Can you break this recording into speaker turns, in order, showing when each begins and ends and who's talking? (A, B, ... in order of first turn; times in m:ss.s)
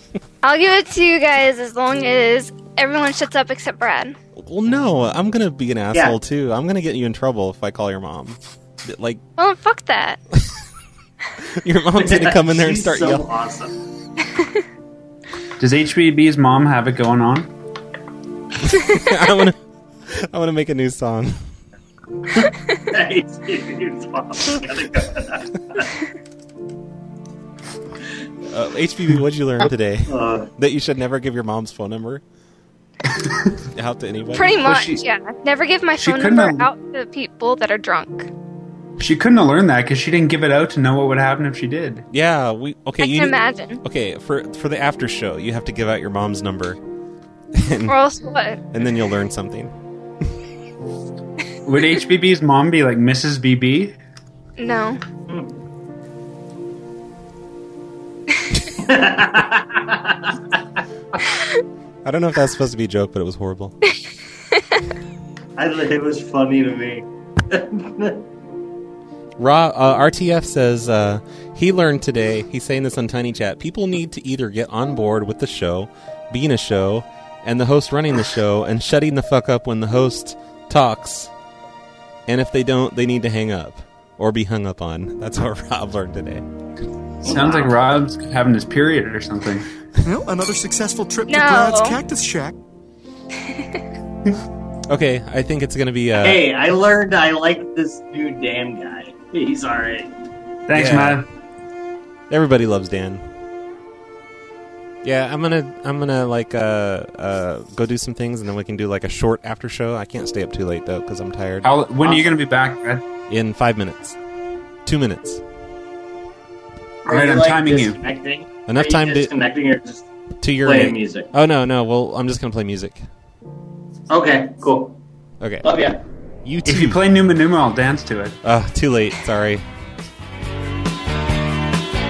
0:00.4-0:04.2 A
0:04.4-0:09.2 B
0:09.4-0:10.2 A
0:11.6-0:13.2 B
0:12.0-0:13.7 C
0:15.6-0:17.5 D
0:18.7-0:19.6 B
0:20.1-0:21.4 B
0:22.4-0:25.9 C
0:28.5-0:32.2 B
0:30.1-0:30.5 C
0:33.1-0:33.5 D
0:33.7-0:34.6 B
0:34.3-0:38.3 A
0:34.6-0:35.0 D
0:36.0-0:36.7 D
0:39.0-0:42.0 D
0:42.1-0:46.8 B
0:43.0-0:43.8 A
0:47.5-0:48.0 B
0:47.9-0:48.6 A
0:48.7-0:49.7 B
0:51.6-0:54.0 D
0:54.6-0:55.0 A
0:58.8-1:00.6 C
1:02.0-1:03.7 B
1:05.6-1:08.2 C
1:09.4-1:21.3 B
1:22.3-1:26.4 B
1:27.2-1:29.7 D
1:27.2-1:27.7 C
1:30.0-1:32.5 E
1:31.3-1:31.9 A
1:34.9-1:36.4 B
1:36.1-1:40.1 C
1:40.7-1:41.2 D
1:40.7-1:41.2 B
1:42.3-1:43.2 B
1:45.0-1:51.7 B
1:51.6-1:53.0 D
1:53.3-1:54.2 B
1:54.8-1:55.4 B
1:57.0-1:58.0 D
1:57.0-2:00.0 C
1:58.7-1:59.3 B
2:00.4-2:03.0 B
2:00.6-2:01.3 C
2:04.1-2:05.0 C
2:05.4-2:05.7 B
2:05.6-2:06.0 C
2:06.4-2:07.0 B
2:06.6-2:08.4 D
2:08.4-2:09.6 B